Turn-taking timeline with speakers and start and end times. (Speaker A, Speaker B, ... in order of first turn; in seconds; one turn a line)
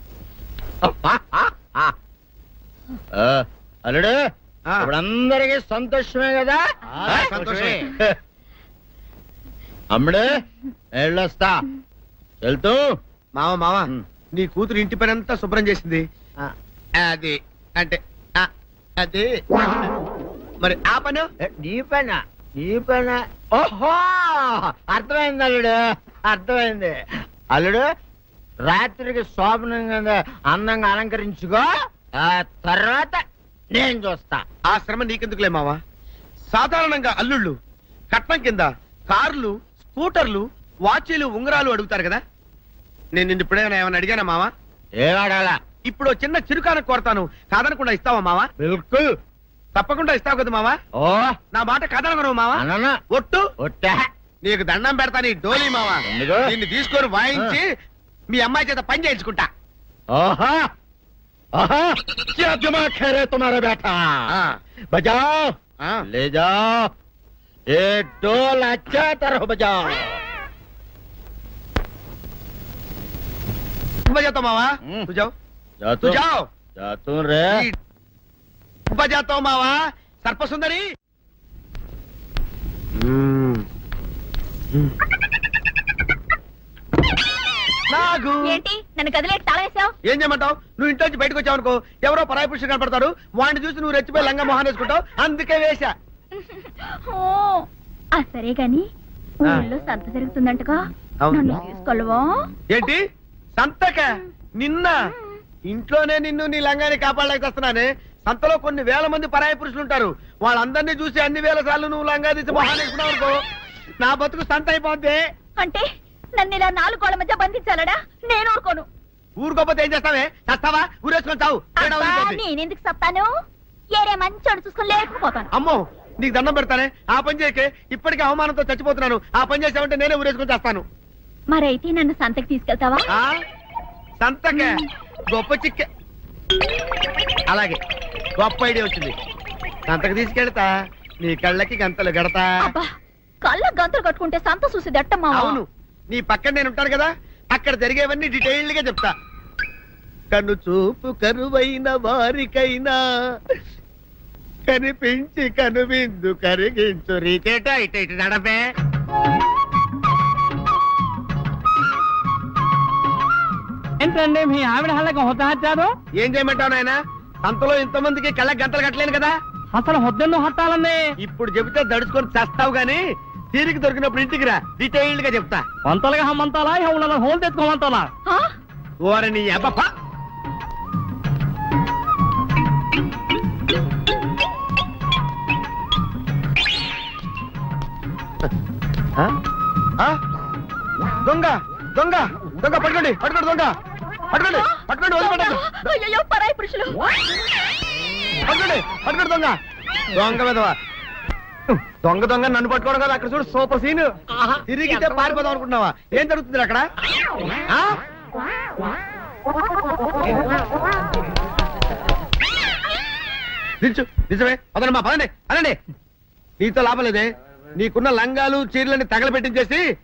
Speaker A: 0.8-1.9
Speaker A: 3.1-4.2
Speaker A: 4.8-8.1
Speaker B: 7.1-7.9
Speaker A: 9.9-10.3
Speaker A: 11.0-11.6
Speaker A: 12.4-12.8
Speaker B: 13.4-16.0
Speaker B: 17.0-19.3
Speaker B: 20.6-21.3
Speaker A: 21.4-27.0
Speaker A: 27.5-27.9
Speaker A: 28.6-31.7
Speaker A: 32.2-33.2
Speaker A: 33.7-34.4
Speaker B: 34.7-35.8
Speaker B: 36.5-37.6
Speaker B: 38.1-42.2
Speaker B: 43.1-44.5
Speaker A: 45.0-45.6
Speaker B: 45.9-48.5
Speaker A: 48.6-49.1
Speaker B: 49.8-50.8
Speaker A: 51.0-51.4
Speaker B: 51.5-52.6
Speaker A: 52.5-53.0
Speaker B: 53.1-53.5
Speaker A: 53.6-54.0
Speaker B: 54.4-57.7
Speaker A: 56.1-56.5
Speaker B: 58.3-59.5
Speaker A: 60.1-60.7
Speaker A: 61.6-64.2
Speaker A: 64.9-65.5
Speaker A: 66.1-66.9
Speaker A: 67.7-70.2
Speaker B: 74.1-75.3
Speaker A: 75.8-76.2
Speaker B: 76.0-76.5
Speaker A: 76.8-77.6
Speaker B: 78.9-80.8
Speaker B: 83.0-83.7
Speaker B: 87.9-88.6
Speaker C: 88.5-89.9
Speaker B: 90.1-95.9
Speaker C: 96.4-98.8
Speaker C: 99.4-100.8
Speaker C: 101.3-102.3
Speaker B: 102.7-103.0
Speaker B: 103.6-105.0
Speaker C: 105.1-105.4
Speaker B: 105.7-113.4
Speaker B: 114.0-115.2
Speaker C: 115.6-115.8
Speaker C: 116.4-118.9
Speaker B: 119.4-122.4
Speaker C: 121.8-123.3
Speaker C: 123.9-125.5
Speaker B: 125.5-130.8
Speaker C: 131.5-133.1
Speaker B: 133.1-133.4
Speaker B: 134.2-134.8
Speaker C: 134.6-134.8
Speaker B: 135.3-135.9
Speaker B: 137.5-137.8
Speaker B: 138.4-139.2
Speaker B: 139.9-140.7
Speaker B: 141.2-142.5
Speaker C: 142.7-142.9
Speaker C: 143.4-145.6
Speaker B: 145.3-149.1
Speaker B: 150.3-153.0
Speaker B: 154.7-158.6
Speaker D: 164.0-165.9
Speaker B: 166.2-169.3
Speaker D: 169.7-171.0
Speaker B: 171.2-173.0
Speaker B: 173.5-175.6
Speaker D: 175.9-178.1
Speaker B: 179.0-179.9
Speaker B: 191.2-193.8
Speaker B: 194.3-195.6
Speaker C: 194.7-197.1
Speaker B: 198.5-199.6
Speaker B: 200.2-200.8
Speaker B: 201.7-204.0
Speaker A: 204.3-205.3
Speaker B: 204.7-206.9
Speaker B: 213.8-215.8
Speaker B: 216.6-219.8